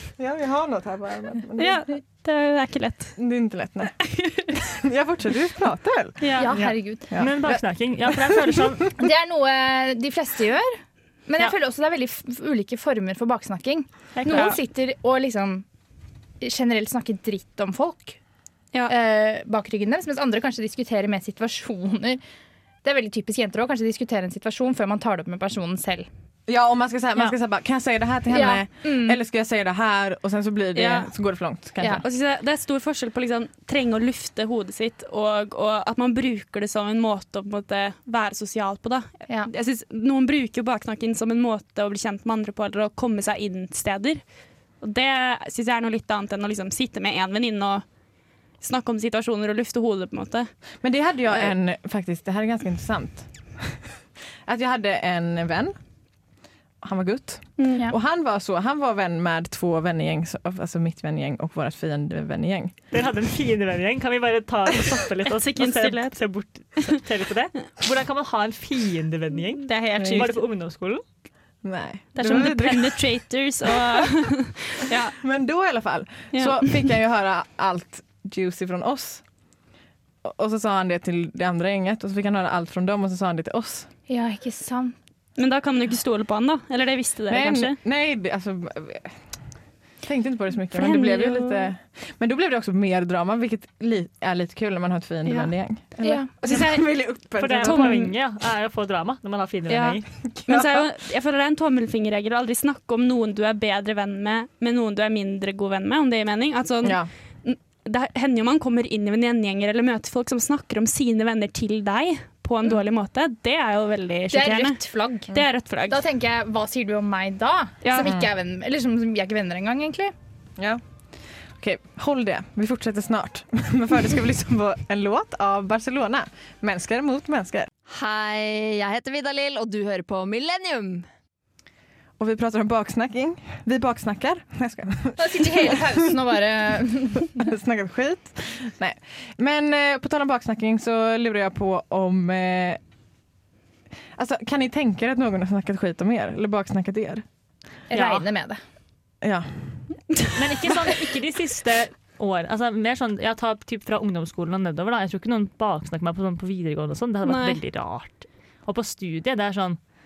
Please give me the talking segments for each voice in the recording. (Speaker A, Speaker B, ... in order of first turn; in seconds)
Speaker A: 0.2-1.9, 3.2-4.0, 4.5-6.3, 7.1-7.6, 8.2-8.6, 26.5-32.0, 50.8-53.9, 54.4-55.8, 56.8-62.8, 70.0-70.3, 71.6-73.0, 75.2-79.2, 80.2-83.9, 87.3-89.2, 90.0-98.0, 100.3-100.8, 106.8-107.1, 118.0-118.3, 120.6-120.8, 121.3-127.7, 132.2-136.0, 137.3-142.8, 144.2-147.2, 149.2-149.8
Speaker B: 1.6-3.2, 4.2-4.5, 6.2-6.5, 14.2-14.6, 30.7-31.1, 31.9-44.2, 44.8-47.9, 48.6-50.5, 57.6-57.8, 65.2-66.2, 69.6-70.4, 72.1-75.2, 76.3-76.9, 85.4-87.8, 90.7-91.7, 95.2-95.5, 96.4-96.9, 97.6-98.1, 99.7-116.0, 117.8-118.1, 157.2-157.6
Speaker C: 6.4-7.1, 9.0-15.6, 16.4-18.2, 18.9-22.2, 22.8-26.1, 28.3-29.2, 84.1-84.9, 96.0-96.3, 114.3-115.3, 115.9-120.1, 135.2-137.5, 147.9-148.6
Speaker D: 6.5-8.9, 14.2-14.5, 62.9-71.0, 97.4-100.1, 147.9-148.3, 150.3-159.8
Speaker E: 127.9-131.1